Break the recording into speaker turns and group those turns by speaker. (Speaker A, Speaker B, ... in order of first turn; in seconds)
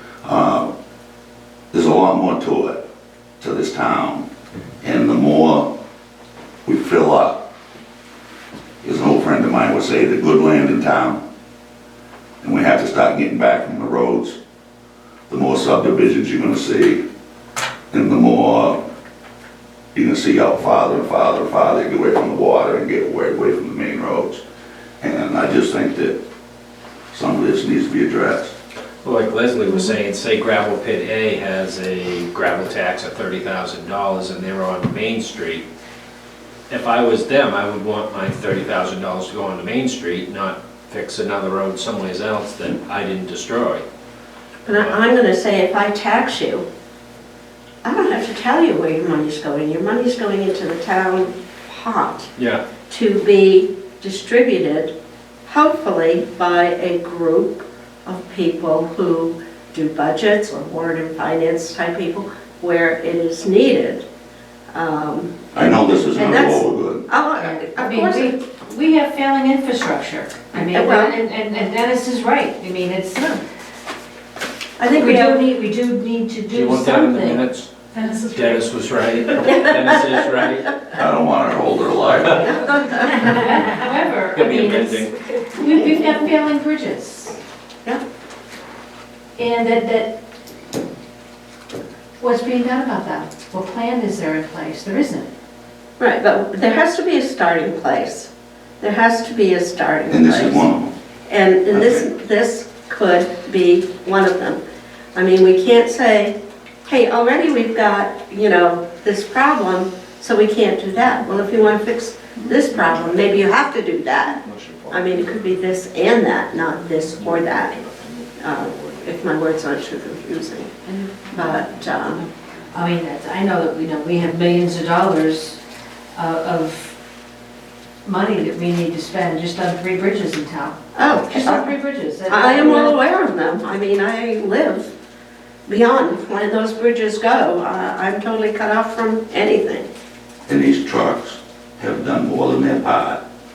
Speaker A: 0.2-0.7, 1.7-2.8, 3.4-4.3, 4.8-5.7, 6.7-7.4, 8.8-11.2, 12.4-14.4, 15.3-17.0, 17.9-18.8, 19.9-24.4, 25.0-26.2, 27.1-28.5, 65.5-67.0, 80.9-82.6, 100.1-100.9, 101.7-102.0, 140.5-143.2
Speaker B: 29.0-35.6, 36.7-43.8, 44.7-45.0, 52.4-52.6, 76.5-77.7, 78.3-80.8, 84.3-85.2, 112.7-113.5, 114.3-115.4, 117.1-119.0
Speaker C: 44.6-46.6, 47.8-52.3, 52.9-54.9, 55.5-64.0, 64.7-68.4, 70.5-71.2, 74.8-75.5, 82.4-83.5, 85.7-86.0, 96.0-100.6, 101.3-104.6, 105.1-106.3, 106.8-117.8, 118.4-120.7, 121.3-122.2, 130.9-131.7, 132.2-134.9, 135.7-139.9
Speaker D: 67.3-73.4, 74.9-79.5, 83.0-87.4, 89.3-90.1, 92.2-95.3, 121.0-121.6, 122.7-125.6, 126.1-126.9, 128.0-133.0